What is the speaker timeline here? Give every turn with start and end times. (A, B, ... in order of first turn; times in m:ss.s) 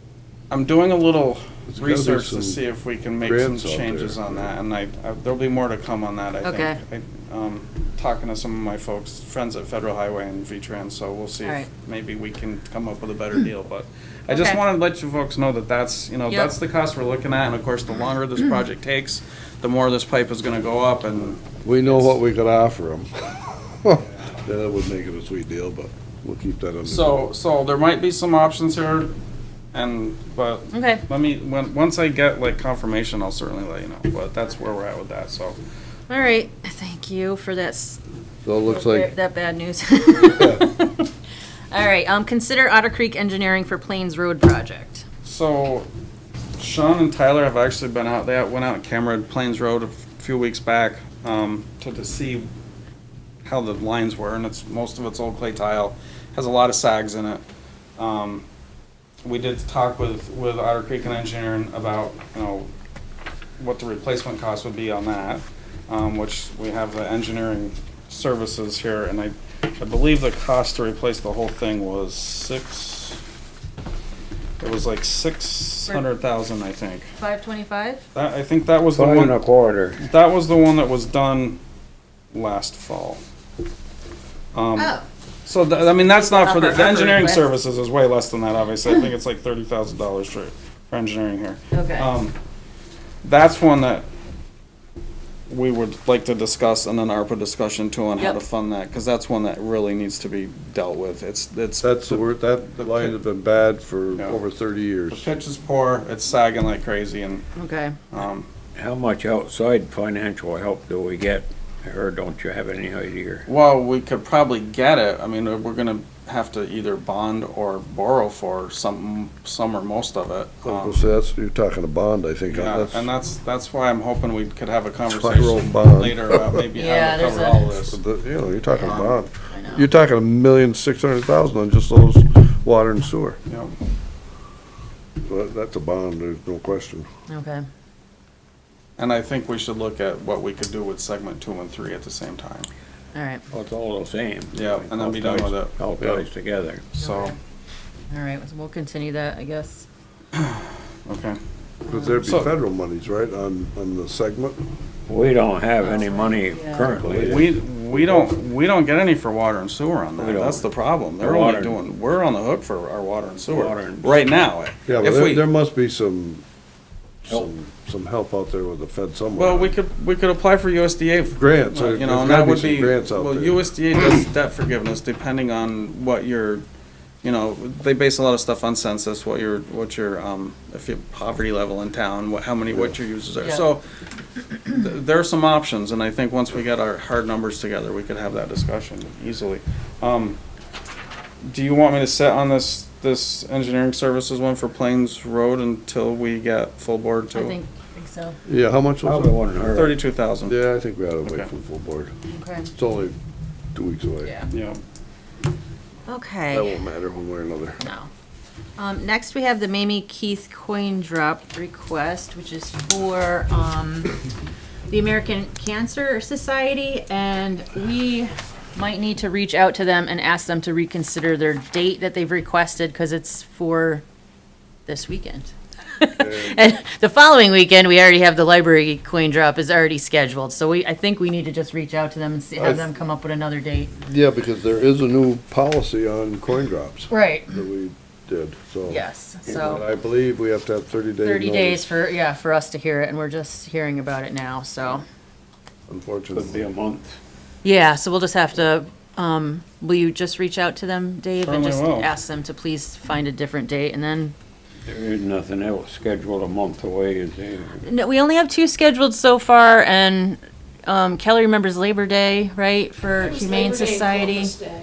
0:00.5-0:22.2 A
0:01.7-0:02.6 B
0:03.2-0:04.5 B
0:06.4-0:06.8 C
0:11.4-0:11.7 C
0:14.3-0:14.6 C
0:21.4-0:27.2 B
0:26.8-0:29.1 A
0:29.7-0:35.6 A
0:30.7-0:31.0 C
0:36.1-0:38.0 C
0:38.4-0:39.1 B
0:38.6-0:40.9 C
0:40.4-0:40.6 B
0:41.7-0:45.0 C
0:45.2-0:45.9 A
0:46.6-0:52.5 A
0:53.4-0:57.4 A
0:58.0-0:58.4 A
0:59.2-1:02.7 A
1:03.6-1:13.2 A
1:14.6-1:17.1 A
1:17.2-1:18.0 C
1:18.1-1:19.4 A
1:18.9-1:20.0 D
1:20.0-1:21.6 A
1:22.3-1:23.2 A
1:24.5-1:32.3 A
1:24.8-1:25.0 C
1:26.1-1:27.5 C
1:31.7-1:32.1 C
1:33.2-1:34.1 A
1:35.5-1:43.2 A
1:41.8-1:45.3 B
1:45.1-1:47.4 A
1:47.6-1:47.9 C
1:48.1-1:48.5 A
1:48.8-1:53.4 D
1:53.4-2:01.0 A
2:00.6-2:03.1 B
2:02.5-2:08.0 A
2:05.0-2:06.6 B
2:06.8-2:07.6 C
2:07.8-2:13.4 B
2:08.7-2:09.9 C
2:08.8-2:09.2 A
2:13.5-2:13.7 A
2:15.2-2:17.1 B
2:17.3-2:17.6 C
2:19.0-2:22.7 A
2:23.1-2:23.4 C
2:23.5-2:26.8 D
2:24.5-2:25.8 A
2:26.0-2:26.2 B
2:26.9-2:27.3 A
2:27.0-2:27.3 C
2:28.1-2:29.8 C
2:30.3-2:31.4 A
2:31.8-2:34.6 B
2:31.9-2:32.2 C
2:32.2-2:32.5 A
2:35.1-2:37.5 D
2:35.8-2:36.8 C
2:37.0-2:38.3 B
2:37.2-2:45.4 A
2:40.2-2:40.6 D
2:41.2-2:41.8 D
2:43.5-2:44.1 D
2:44.9-2:46.4 B
2:47.2-2:49.7 B
2:49.3-2:56.6 A
2:51.3-2:53.6 B
2:57.2-3:03.8 A
3:03.4-3:03.6 C
3:04.5-3:10.4 A
3:11.5-3:17.6 A
3:17.3-3:18.4 C
3:18.4-3:19.4 B
3:19.0-3:19.9 D
3:19.7-3:20.6 A
3:20.4-3:22.1 B
3:21.2-3:21.5 A
3:22.3-3:22.7 C
3:22.7-3:23.2 B
3:23.7-3:24.3 B
3:24.2-3:24.5 C
3:24.5-3:24.8 A
3:26.1-3:26.7 C
3:26.5-3:27.8 B
3:27.8-3:28.1 C
3:28.8-3:34.2 C
3:34.9-3:44.0 C
3:44.8-3:53.9 C
3:46.2-3:46.6 B
3:52.6-3:52.8 B
3:54.0-4:01.9 B
3:57.1-3:57.5 C
3:58.9-3:59.8 C
4:01.2-4:05.0 C
4:05.9-4:06.7 B
4:06.3-4:07.2 D
4:07.6-4:14.3 C
4:11.4-4:12.1 A
4:14.8-4:17.8 D
4:17.8-4:24.6 C